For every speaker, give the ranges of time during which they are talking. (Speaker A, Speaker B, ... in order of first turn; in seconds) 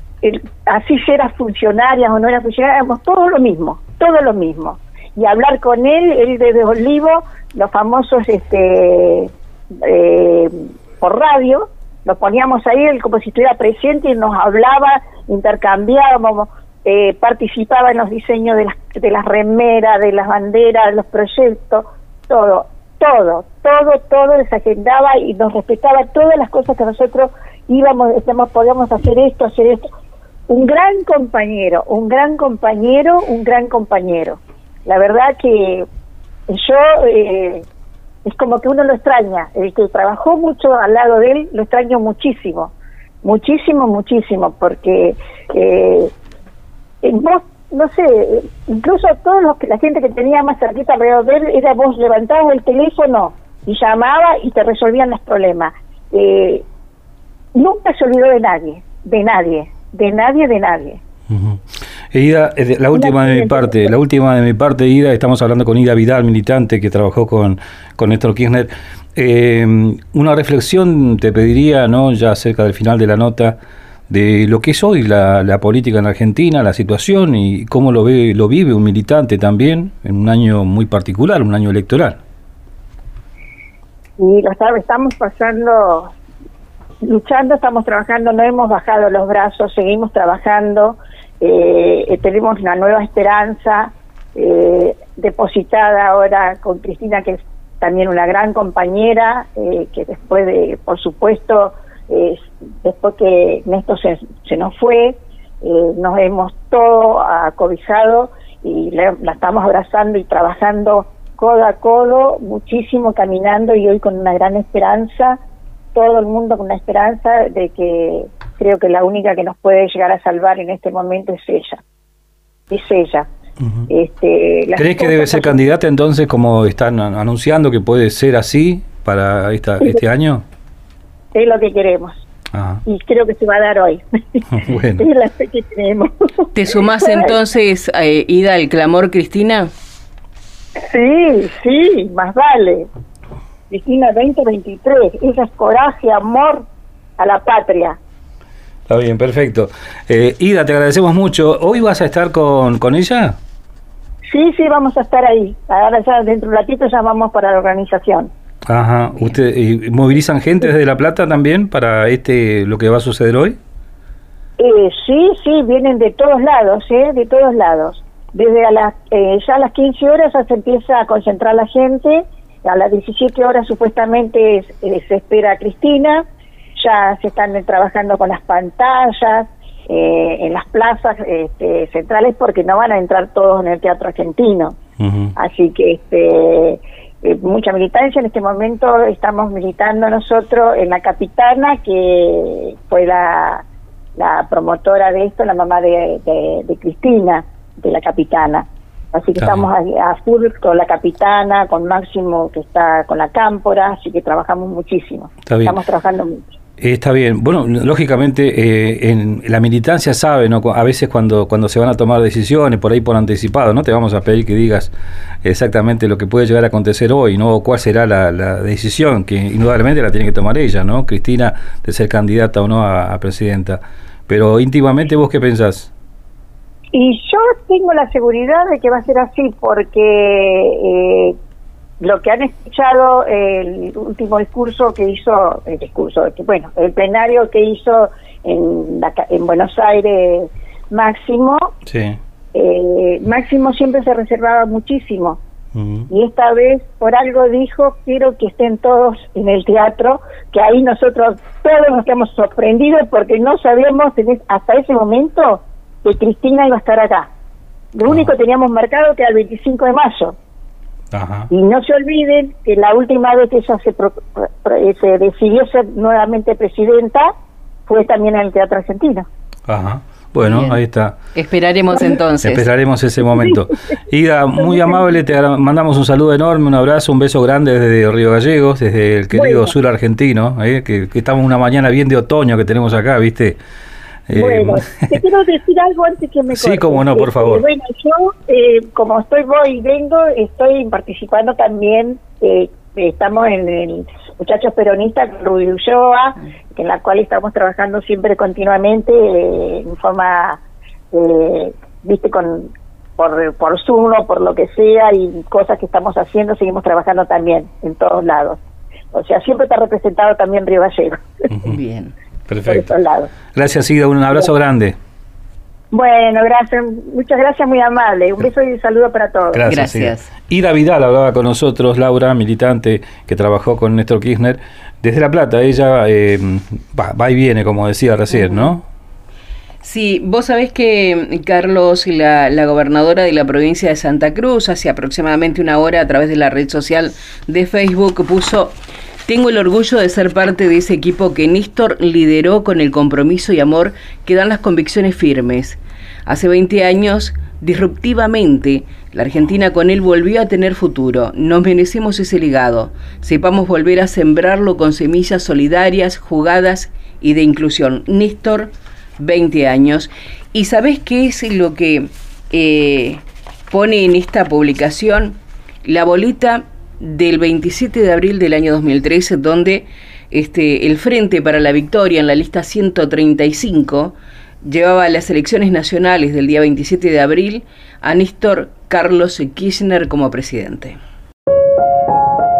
Speaker A: 0.2-29.9, 30.5-35.9, 36.5-37.6, 38.2-46.1, 47.0-56.6, 57.5-61.0, 62.9-63.9, 84.2-86.1, 87.0-115.4, 115.9-121.8, 122.7-123.3, 123.9-125.6, 131.3-132.2, 132.8-136.5, 137.0-137.3, 140.8-142.9, 143.7-146.7, 147.2-148.0, 154.3-158.3, 164.6-176.2, 176.8-184.8, 185.3-193.6, 194.2-206.4, 226.9-231.3, 232.0-241.7, 242.5-245.4, 246.1-257.3, 257.9-260.3, 261.5-267.3, 267.9-269.3, 274.6-275.0, 279.3-279.7, 284.3-300.6, 301.1-308.6, 309.1-311.3, 312.6-313.3, 315.9-319.6
Speaker B: 61.3-61.6, 62.1-73.6, 74.1-82.2, 123.6-123.9, 124.8-130.4, 132.5-132.8, 134.5-135.1, 148.9-153.4, 158.7-163.6, 185.0-185.3, 199.4-199.7, 205.5-205.8, 206.8-225.9, 241.9-242.2, 245.8-246.1, 261.1-261.5, 269.7-271.2, 272.4-283.6, 284.3-285.1, 286.5-287.6, 311.5-311.8, 312.5-312.9, 313.5-314.9, 319.5-328.8
Speaker C: 136.5-139.7, 270.4-270.8, 271.3-272.6, 311.7-312.1, 319.6-320.3, 328.3-328.7, 329.8-381.0